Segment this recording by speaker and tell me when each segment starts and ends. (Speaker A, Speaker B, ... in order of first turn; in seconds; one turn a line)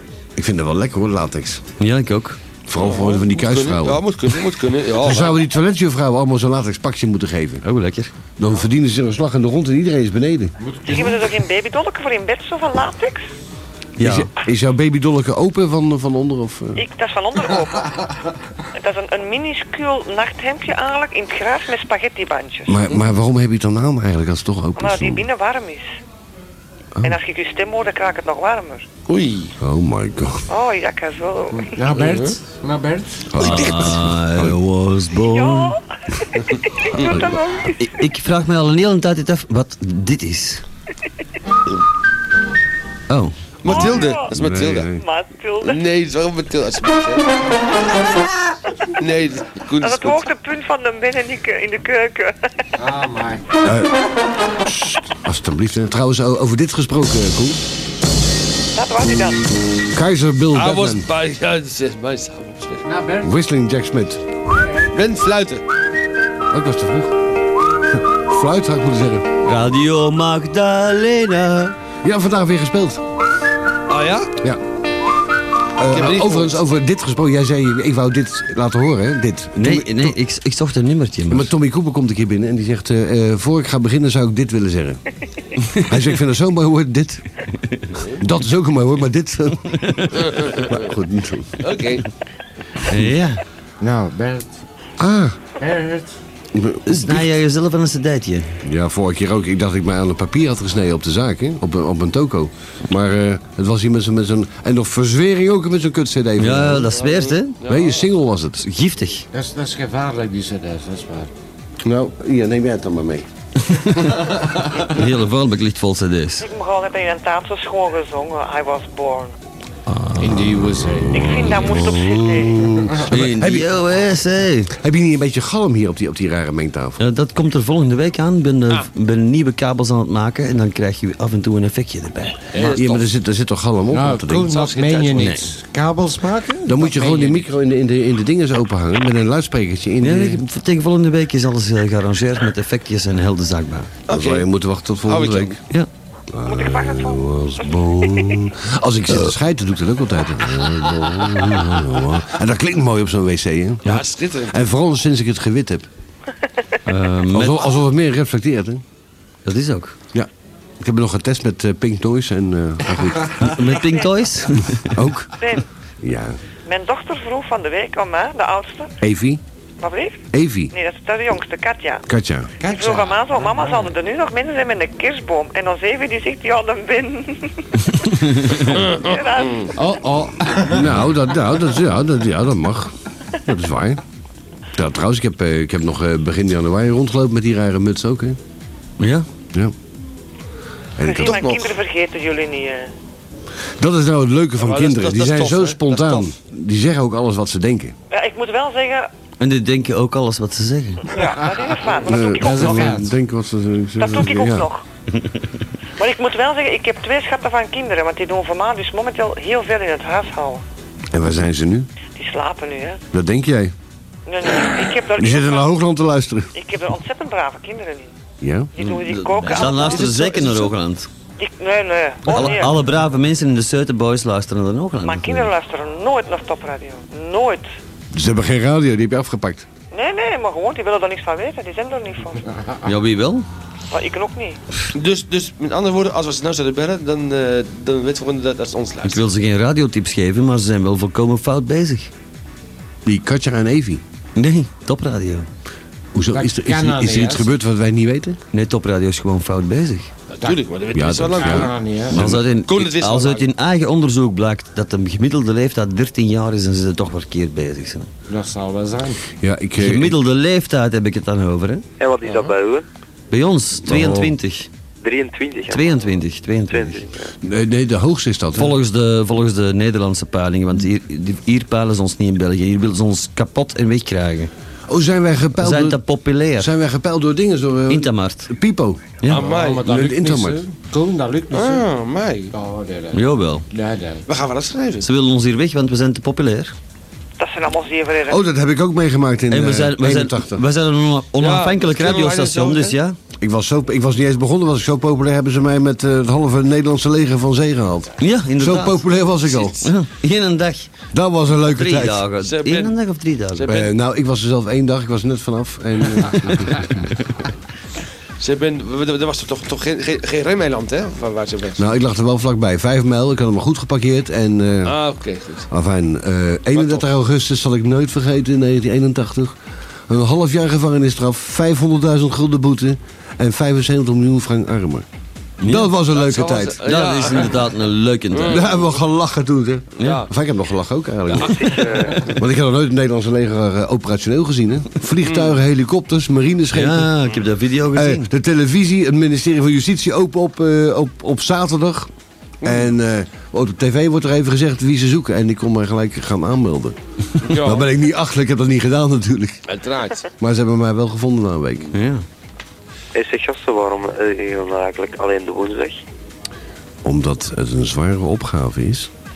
Speaker A: 0.4-1.6
Speaker B: 1.8-2.4
Speaker A: 2.7-4.0
Speaker C: 2.8-5.4
Speaker A: 5.0-7.6
Speaker B: 7.6-8.1
Speaker A: 8.4-10.5
Speaker D: 10.6-11.3
Speaker E: 10.9-13.2
Speaker B: 14.0-14.3
Speaker A: 14.0-16.8
Speaker E: 16.8-17.9
Speaker E: 18.8-22.7
Speaker A: 22.7-25.2
Speaker E: 24.8-25.9
Speaker E: 27.0-28.9
Speaker C: 29.1-29.5
Speaker A: 29.6-30.5
Speaker E: 30.5-31.7
Speaker D: 31.5-33.3
Speaker C: 31.9-32.4
Speaker A: 33.3-34.6
Speaker B: 33.4-35.8
Speaker E: 35.3-35.8
Speaker E: 36.8-37.8
Speaker B: 37.8-40.6
Speaker B: 43.1-43.3
Speaker C: 43.6-44.9
Speaker E: 43.7-44.3
Speaker A: 44.3-45.0
Speaker E: 44.9-45.8
Speaker C: 45.6-47.3
Speaker C: 49.0-50.2
Speaker E: 49.8-52.5
Speaker D: 52.8-53.5
Speaker A: 53.6-54.0
Speaker A: 54.6-57.6
Speaker E: 58.7-59.6
Speaker A: 59.9-61.1
Speaker C: 60.5-62.9
Speaker D: 62.8-63.3
Speaker A: 63.2-64.2
Speaker C: 64.9-65.6
Speaker A: 66.5-67.1
Speaker A: 68.0-69.3
Speaker B: 69.5-71.8
Speaker A: 72.0-73.0
Speaker C: 73.9-74.3
Speaker A: 75.8-80.2
Speaker C: 75.9-76.6
Speaker B: 79.6-81.5
Speaker A: 81.3-85.0
Speaker A: 85.8-87.2
Speaker C: 87.9-88.2
Speaker A: 88.2-91.7
Speaker B: 89.8-90.1
Speaker C: 90.2-90.8
Speaker C: 91.6-92.0
Speaker B: 92.9-93.4
Speaker D: 93.8-94.6
Speaker A: 95.0-95.4
Speaker D: 95.6-96.1
Speaker A: 96.5-97.3
Speaker B: 96.9-98.6
Speaker A: 98.7-107.0
Speaker B: 106.4-107.6
Speaker C: 106.9-108.1
Speaker A: 107.7-108.6
Speaker B: 108.6-109.3
Speaker D: 109.3-111.3
Speaker A: 111.8-113.3
Speaker B: 113.7-114.1
Speaker B: 114.9-116.5
Speaker E: 116.4-119.3
Speaker B: 119.9-120.5
Speaker D: 120.2-121.6
Speaker A: 120.8-123.7
Speaker E: 121.1-122.6
Speaker B: 123.1-124.7
Speaker A: 124.8-127.0
Speaker B: 127.0-132.5
Speaker C: 132.5-133.1
Speaker A: 132.6-134.6
Speaker D: 133.9-137.5
Speaker C: 134.4-135.3
Speaker B: 135.2-135.4
Speaker A: 136.7-140.4
Speaker B: 140.0-143.9
Speaker C: 144.1-144.5
Speaker A: 144.1-145.6
Speaker C: 145.1-145.6
Speaker A: 146.3-155.9
Speaker E: 146.5-147.3
Speaker C: 153.8-154.5
Speaker B: 156.9-157.6
Speaker A: 157.3-158.8
Speaker B: 159.4-159.9
Speaker A: 160.8-163.5
Speaker B: 163.5-164.9
Speaker A: 164.8-165.3
Speaker E: 165.4-165.7
Speaker A: 166.0-166.4
Speaker E: 166.7-168.9
Speaker A: 169.0-169.4
Speaker E: 169.8-170.2
Speaker A: 170.3-170.7
Speaker E: 170.7-172.1
Speaker A: 172.1-172.5
Speaker D: 172.6-173.9
Speaker E: 172.7-177.6
Speaker C: 178.7-179.7
Speaker E: 179.0-179.7
Speaker D: 179.7-180.9
Speaker A: 180.7-182.9
Speaker A: 183.4-184.0
Speaker A: 184.7-188.4
Speaker B: 189.0-189.3
Speaker A: 191.0-191.4
Speaker E: 191.0-192.9
Speaker C: 191.2-191.7
Speaker A: 193.8-198.0
Speaker C: 194.6-196.3
Speaker E: 198.1-199.1
Speaker B: 199.4-201.1
Speaker D: 201.1-203.1
Speaker E: 201.2-202.9
Speaker A: 202.1-204.7
Speaker E: 204.0-204.8
Speaker E: 206.0-210.6
Speaker A: 211.1-211.9
Speaker E: 212.1-213.0
Speaker A: 213.1-213.7
Speaker E: 214.3-215.7
Speaker A: 215.2-216.5
Speaker E: 216.6-218.1
Speaker A: 218.4-218.7
Speaker E: 218.8-220.6
Speaker B: 218.8-221.1
Speaker E: 221.4-222.7
Speaker B: 222.3-225.5
Speaker E: 225.0-227.7
Speaker A: 228.1-229.7
Speaker E: 229.9-232.4
Speaker B: 232.8-233.4
Speaker E: 233.9-234.6
Speaker C: 234.9-239.2
Speaker B: 239.0-242.1
Speaker A: 243.1-244.0
Speaker B: 244.4-245.5
Speaker A: 246.1-248.4
Speaker D: 246.3-247.5
Speaker B: 248.5-250.1
Speaker C: 250.3-253.5
Speaker A: 250.9-252.4
Speaker D: 251.3-252.2
Speaker B: 252.1-258.1
Speaker D: 258.3-259.2
Speaker A: 259.4-260.1
Speaker B: 259.8-261.8
Speaker F: 262.0-262.9
Speaker C: 262.2-262.5
Speaker B: 263.3-264.7
Speaker A: 263.9-264.3
Speaker F: 265.0-266.0
Speaker B: 265.7-267.0
Speaker F: 266.7-267.3
Speaker A: 267.4-268.8
Speaker B: 268.6-274.5
Speaker A: 274.9-276.0
Speaker B: 275.6-276.7
Speaker A: 276.6-279.0
Speaker B: 277.9-278.5
Speaker C: 279.3-279.9
Speaker D: 279.3-281.9
Speaker A: 279.7-280.6
Speaker C: 281.5-282.5
Speaker D: 282.5-284.3
Speaker B: 283.1-283.7
Speaker C: 284.3-285.1
Speaker B: 285.0-286.7
Speaker E: 287.4-288.4
Speaker A: 288.3-290.6
Speaker B: 289.5-293.2
Speaker C: 291.4-293.0
Speaker A: 293.4-299.9
Speaker B: 298.2-300.9
Speaker A: 301.1-302.2
Speaker B: 301.7-303.7
Speaker C: 302.4-302.9
Speaker C: 303.6-303.9
Speaker A: 303.7-307.1
Speaker C: 308.4-311.8
Speaker A: 311.8-314.9
Speaker C: 314.8-315.7
Speaker A: 315.7-319.6
Speaker C: 316.7-317.1
Speaker A: 320.1-325.1
Speaker B: 325.6-325.9
Speaker A: 325.6-326.8
Speaker C: 325.7-327.6
Speaker B: 326.8-328.7
Speaker C: 328.3-328.9
Speaker A: 328.5-337.1
Speaker C: 330.0-330.3
Speaker B: 330.0-330.2
Speaker C: 331.3-332.3
Speaker F: 331.6-332.3
Speaker C: 335.2-335.6
Speaker B: 336.7-338.3
Speaker A: 337.9-342.1
Speaker C: 342.6-342.9
Speaker A: 342.6-347.0
Speaker C: 347.4-347.9
Speaker A: 347.5-349.6
Speaker C: 349.7-350.2
Speaker A: 350.4-351.9
Speaker B: 351.9-352.2
Speaker F: 353.1-356.0
Speaker A: 357.0-359.1